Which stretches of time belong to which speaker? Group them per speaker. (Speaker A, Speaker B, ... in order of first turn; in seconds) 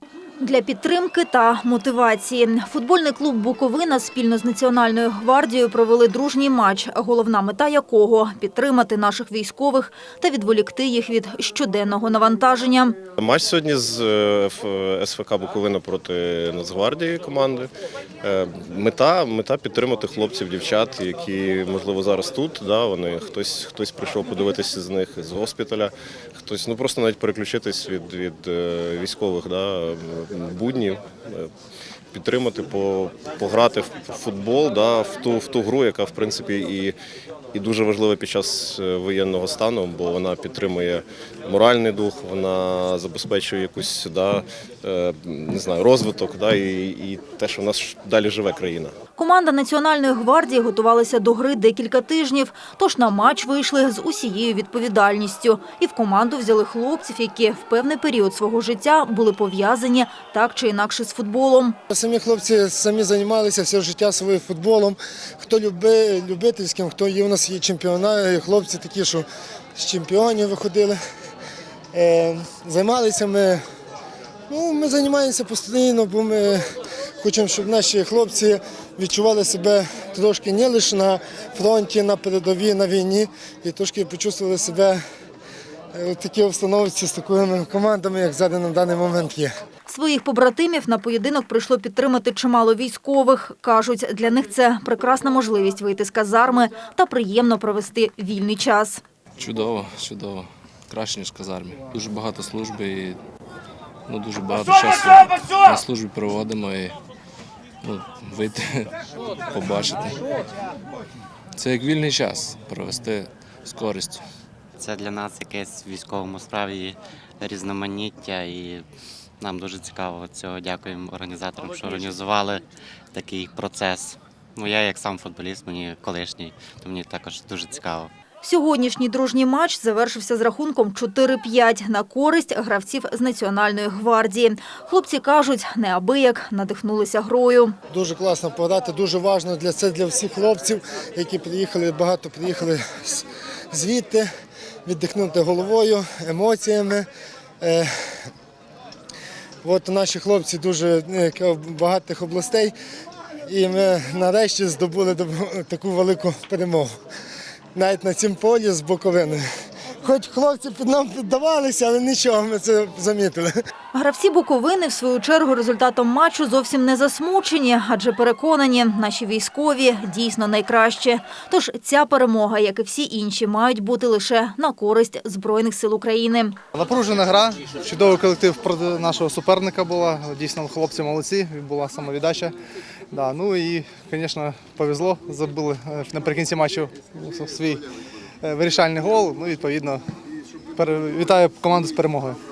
Speaker A: 0.4-12.9, 49.2-61.8, 89.9-99.0, 128.4-137.7, 163.9-176.6
Speaker B: 13.2-17.7, 18.2-31.5, 32.1-36.9, 37.5-48.9
Speaker C: 61.9-71.0, 71.9-73.6, 74.5-76.6, 77.2-85.0, 85.9-89.5, 137.9-144.3, 144.8-147.1, 147.6-148.2, 149.6-152.7, 153.4-156.9, 157.7-159.4, 160.0-163.5
Speaker D: 99.4-103.2, 104.1-107.0, 107.8-108.9, 109.5-110.2, 111.5-114.2
Speaker E: 114.8-118.8, 119.4-128.1
Speaker F: 176.7-182.5, 183.1-187.8, 188.4-190.0, 190.8-192.4